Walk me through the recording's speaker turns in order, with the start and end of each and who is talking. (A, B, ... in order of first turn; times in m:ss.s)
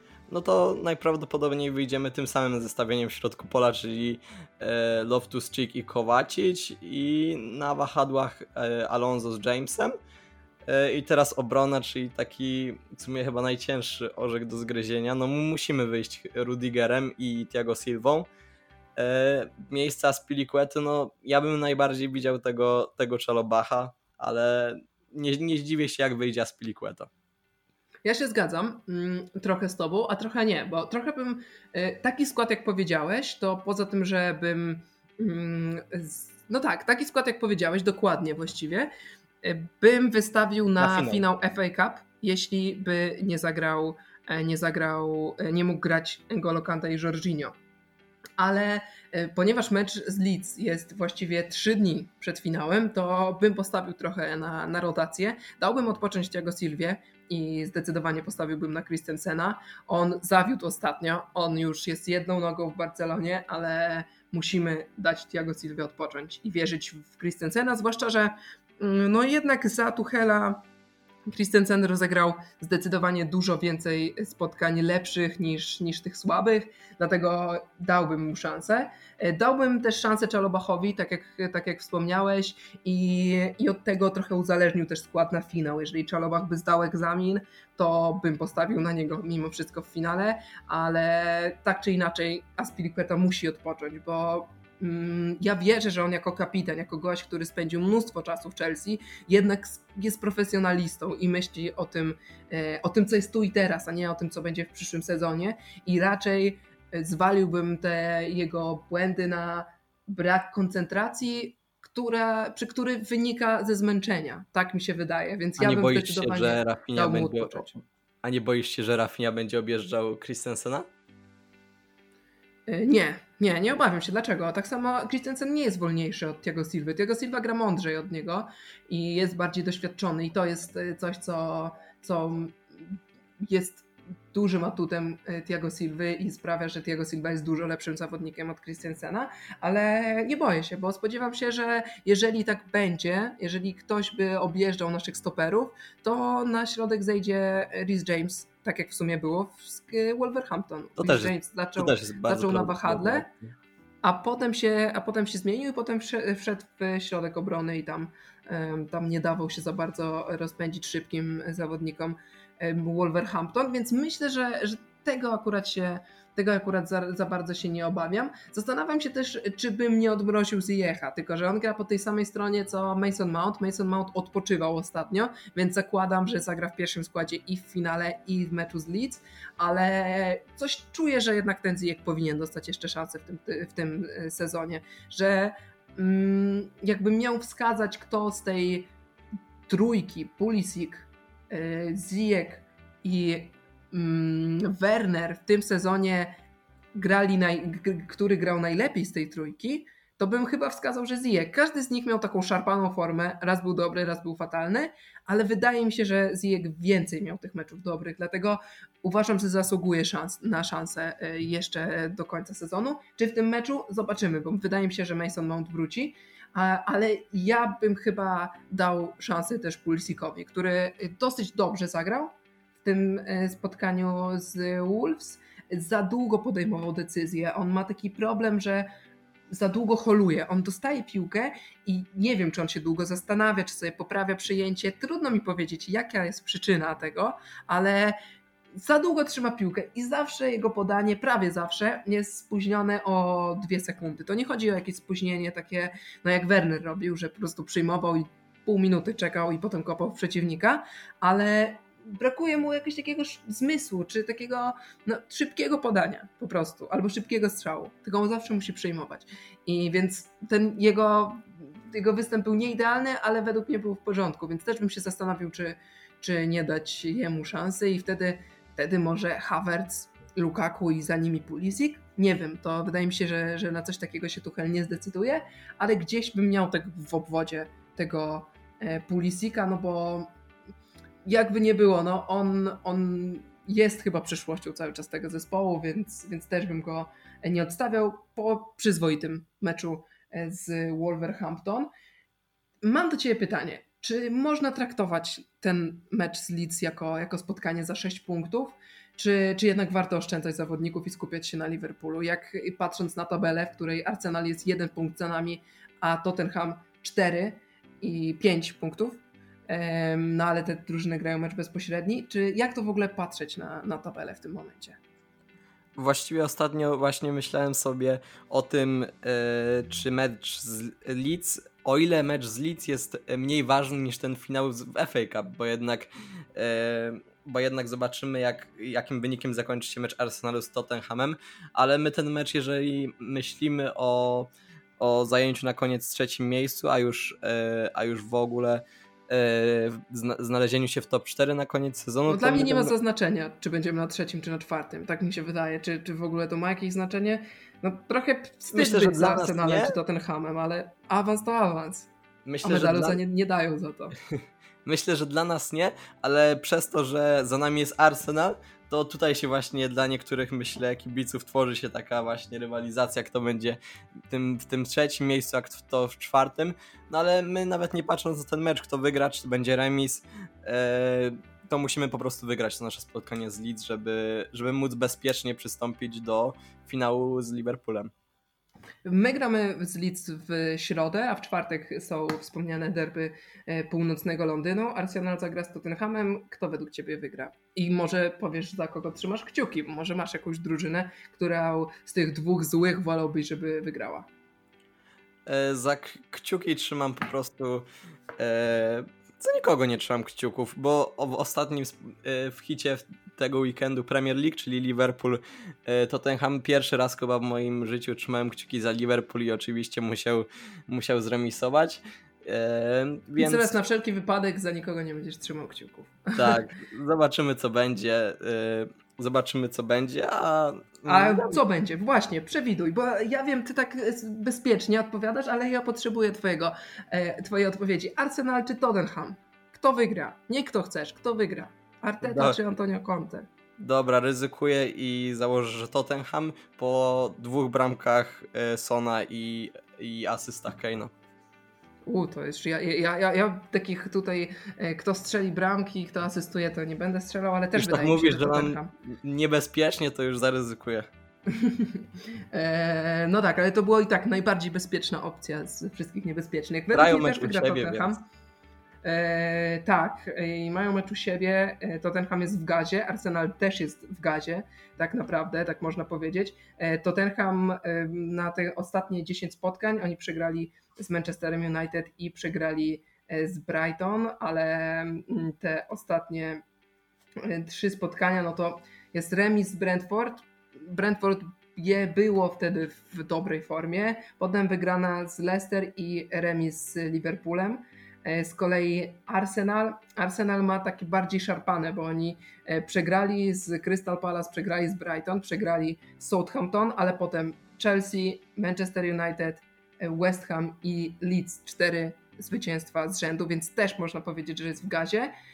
0:00.3-0:09.9 A
0:10.7-0:18.3 A
0:19.0-0:27.1 A
0:28.0-0:38.9 B
0:39.4-0:47.5 B
0:40.8-0:41.2 A
0:48.4-1:10.6 B
1:11.3-1:57.7 B
1:55.6-2:00.9 A
2:02.7-2:33.3 B
2:31.0-2:33.5 A
2:34.0-3:08.9 B
3:09.7-3:16.4 B
3:16.9-3:48.9 B
3:49.5-3:58.2 B
3:58.8-4:40.3 B
4:41.2-4:51.9 B
4:52.8-5:15.0 B
5:16.0-5:42.9 A
5:42.3-5:52.1 B
5:48.7-5:49.9 A
5:52.4-5:53.2 A
5:52.6-5:54.2 B
5:54.3-6:18.1 A
6:19.0-6:34.3 B
6:35.4-6:37.8 A
6:38.4-6:53.8 A
6:53.4-6:56.6 B
6:56.4-7:01.6 A
7:01.1-7:13.5 B
7:12.2-7:12.6 A
7:13.8-7:21.1 A
7:22.0-7:28.9 B
7:27.7-7:31.1 A
7:31.5-7:38.2 B
7:36.9-7:38.1 A
7:39.0-7:56.6 B
7:57.4-8:25.3 B